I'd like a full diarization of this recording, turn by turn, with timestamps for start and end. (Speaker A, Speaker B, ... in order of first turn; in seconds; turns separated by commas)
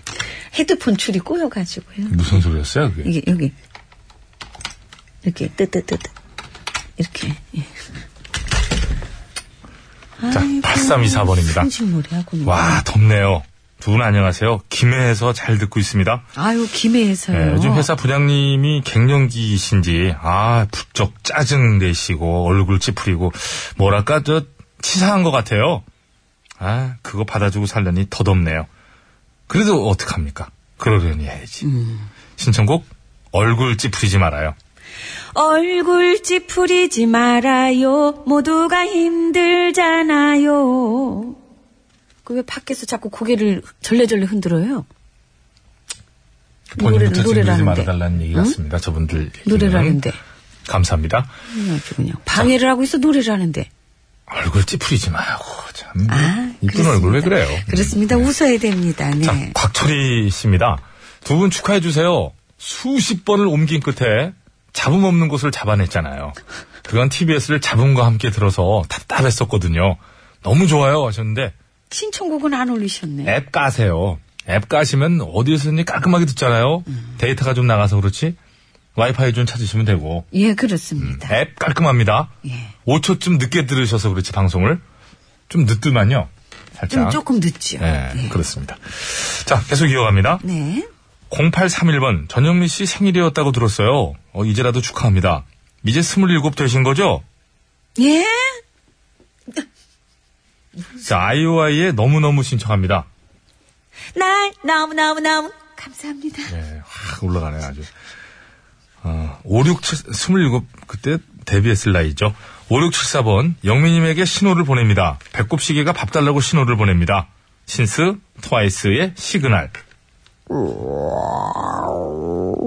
Speaker A: 0.5-2.4, Speaker B: 2.1-3.1, Speaker A: 3.0-3.5, Speaker A: 5.2-6.1, Speaker A: 7.0-7.7, Speaker A: 10.2-12.8, Speaker B: 10.3-11.7, Speaker B: 12.4-16.3, Speaker A: 16.4-17.9, Speaker B: 17.3-25.9, Speaker B: 26.6-28.7, Speaker B: 29.5-31.6, Speaker A: 31.6-32.1, Speaker B: 32.4-34.6, Speaker A: 35.3-41.4, Speaker A: 42.2-44.9, Speaker B: 46.7-50.0, Speaker A: 46.8-48.6, Speaker A: 49.4-50.2, Speaker B: 50.7-51.3, Speaker A: 51.5-53.7, Speaker B: 54.3-58.3, Speaker A: 56.1-59.5, Speaker B: 59.2-71.5, Speaker A: 71.9-73.4, Speaker B: 73.3-78.4, Speaker B: 79.0-80.3, Speaker A: 80.3-81.3, Speaker B: 81.0-82.3, Speaker A: 82.5-82.7, Speaker B: 82.9-84.8, Speaker B: 85.5-87.2, Speaker A: 86.9-88.4, Speaker B: 87.8-90.4, Speaker A: 90.4-90.9, Speaker B: 91.3-97.2, Speaker A: 98.0-98.6, Speaker B: 101.0-103.1, Speaker A: 104.1-106.5, Speaker B: 106.5-107.9, Speaker B: 109.0-119.7